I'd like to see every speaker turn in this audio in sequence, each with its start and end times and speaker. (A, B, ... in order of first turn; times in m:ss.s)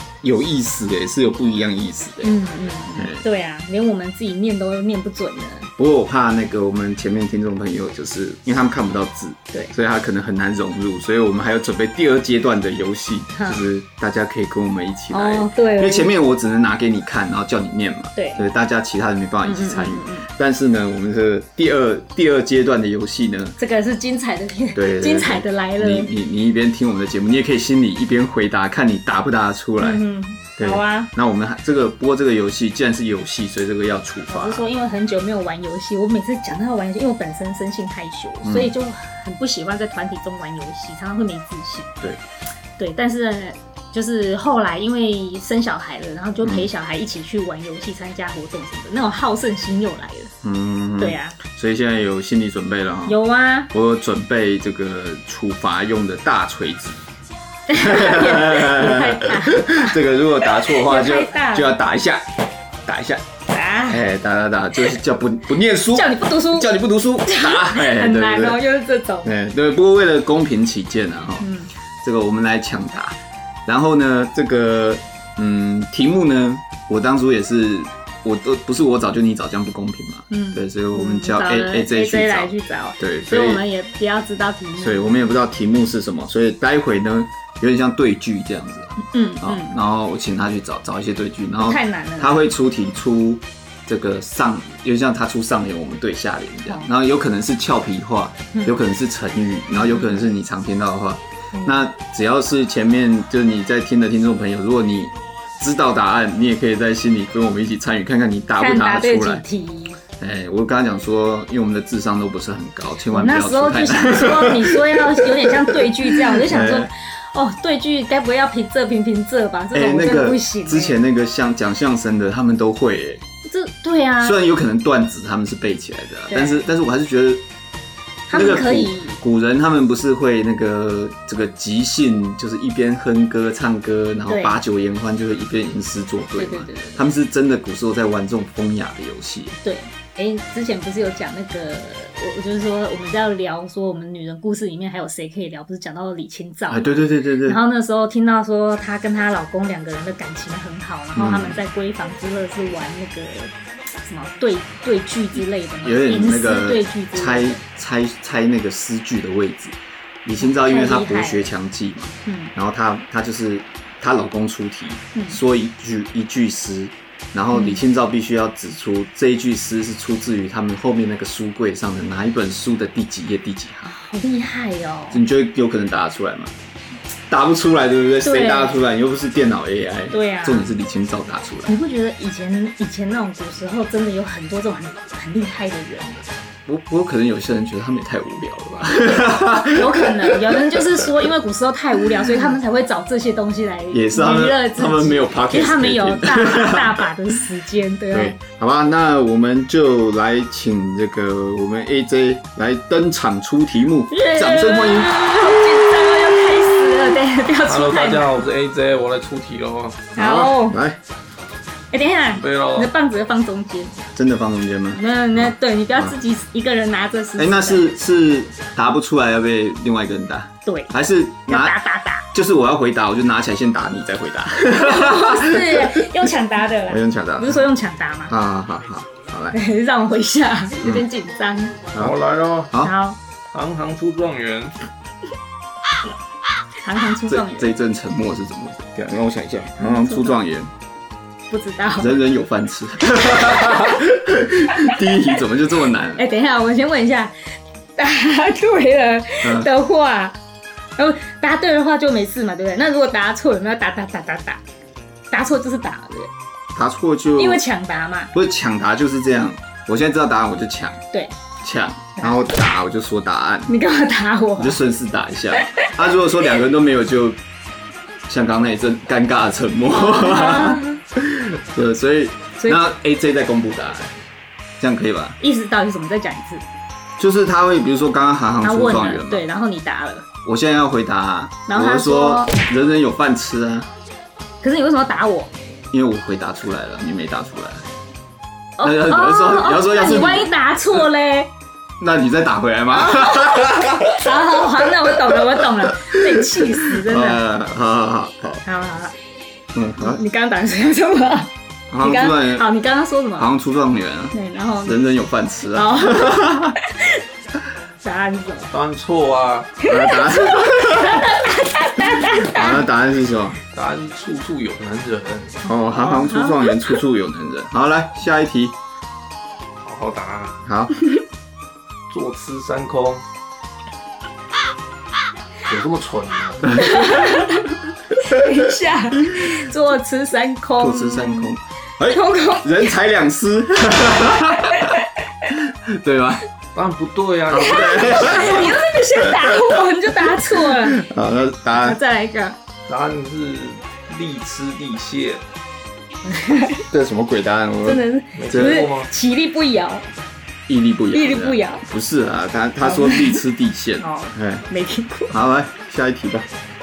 0:00.2-0:02.3 A
0:02.2-0:05.7 B
0:03.0-0:03.2 A
0:05.8-0:23.6 A
0:13.3-0:13.6 B
0:15.1-0:16.1 B
0:18.1-0:18.5 B
0:19.4-0:20.3 B
0:23.6-0:26.1 B
0:24.7-0:30.0 A
0:29.8-0:31.1 B
0:30.6-0:34.6 A
0:34.3-0:42.0 B
0:38.4-0:38.7 A
0:42.8-0:50.3 B
0:46.4-0:46.7 A
0:50.4-0:53.2 A
0:51.0-0:51.4 B
0:53.1-0:53.7 B
0:53.7-0:57.0 A
0:57.7-1:01.7 B
0:57.7-1:02.3 A
1:02.9-1:03.2 A
1:03.5-1:04.0 B
1:03.9-1:08.6 A
1:05.9-1:09.3 B
1:09.2-1:11.5 A
1:11.4-1:11.7 B
1:12.0-1:23.6 A
1:20.3-1:25.3 B
1:24.8-1:49.4 A
1:29.0-1:29.8 B
1:31.6-1:32.5 B
1:38.5-1:38.8 B
1:39.7-1:40.3 B
1:41.5-1:41.9 B
1:48.6-1:50.0 B
1:50.2-1:56.9 A
1:53.1-2:01.0 B
1:59.7-2:03.2 A
2:03.4-2:04.4 B
2:04.2-2:07.4 A
2:06.3-2:06.6 B
2:08.3-2:09.2 B
2:08.3-2:19.6 A
2:14.3-2:14.6 B
2:16.4-2:17.0 B
2:19.6-2:33.5 B
2:26.7-2:27.6 A
2:31.1-2:31.6 A
2:34.1-2:37.6 B
2:35.8-2:53.9 A
2:40.4-2:41.5 B
2:42.2-2:42.5 B
2:47.5-2:47.8 B
2:53.9-2:55.2 B
2:55.1-2:56.5 A
2:57.3-3:01.8 A
2:58.2-2:58.8 B
3:00.1-3:00.7 B
3:01.6-3:06.2 B
3:06.6-3:11.0 A
3:09.7-3:18.4 B
3:13.9-3:17.1 A
3:18.1-3:25.2 A
3:24.1-3:28.4 B
3:27.6-3:30.1 C
3:30.2-3:30.8 B
3:30.2-3:31.0 A
3:31.9-3:34.0 B
3:32.4-3:32.9 C
3:34.1-3:36.1 A
3:34.9-3:38.0 B
3:37.4-3:41.8 A
3:40.6-3:40.9 B
3:41.4-3:42.2 B
3:42.3-3:46.3 A
3:44.7-3:48.3 B
3:46.9-3:47.7 A
3:48.3-3:49.6 A
3:49.5-3:51.8 B
3:52.0-3:52.7 C
3:52.8-3:53.2 B
3:53.5-3:54.7 C
3:56.8-3:57.7 B
3:57.3-4:00.7 A
3:59.8-4:00.4 B
4:01.5-4:02.2 B
4:02.0-4:06.2 A
4:06.2-4:07.3 B
4:08.0-4:10.4 B
4:09.4-4:09.7 A
4:11.0-4:14.6 B
4:15.3-4:16.3 B
4:16.7-4:17.6 A
4:17.4-4:18.3 B
4:18.3-4:21.0 A
4:21.6-4:23.7 A
4:23.7-4:24.8 B
4:24.6-4:27.4 A
4:25.6-4:25.9 B
4:28.3-4:34.1 A
4:29.9-4:31.0 B
4:32.6-4:32.8 B
4:34.8-4:35.4 A
4:35.4-4:36.6 B
4:37.2-4:39.4 A
4:38.6-4:40.3 B
4:40.4-4:43.9 A
4:41.7-4:42.6 B
4:44.6-4:45.5 B
4:45.9-4:47.8 A
4:48.8-4:51.5 B
4:48.8-4:50.5 A
4:52.0-4:58.6 A
4:52.9-4:57.4 B
4:58.6-4:59.1 B
4:59.7-5:00.2 A
5:00.0-5:03.5 B
5:01.9-5:02.7 A
5:03.4-5:06.8 A
5:04.3-5:05.0 B
5:05.7-5:07.2 B
5:08.0-5:08.7 B
5:08.7-5:09.8 C
5:09.8-5:12.8 B
5:09.8-5:13.6 A
5:13.7-5:15.6 C
5:15.6-5:18.8 A
5:15.9-5:17.0 B
5:19.8-5:20.6 C
5:20.6-5:21.0 A
5:22.1-5:23.2 C
5:25.7-5:26.9 C
5:26.6-5:27.6 A
5:26.7-5:31.5 B
5:30.8-5:35.0 A
5:32.1-5:32.9 B
5:34.6-5:35.1 B
5:35.5-5:36.4 A
5:36.7-5:38.7 C
5:37.5-5:39.8 A
5:37.5-5:41.0 B
5:40.4-5:42.0 A
5:41.8-5:42.6 B
5:42.9-5:45.4 C
5:46.2-5:46.8 B
5:46.9-5:48.9 A
5:47.8-5:50.1 B
5:48.4-5:49.1 C
5:50.7-5:54.6 A
5:51.1-5:51.8 B
5:52.8-5:53.4 B
5:54.0-5:55.3 B
5:55.3-5:56.5 A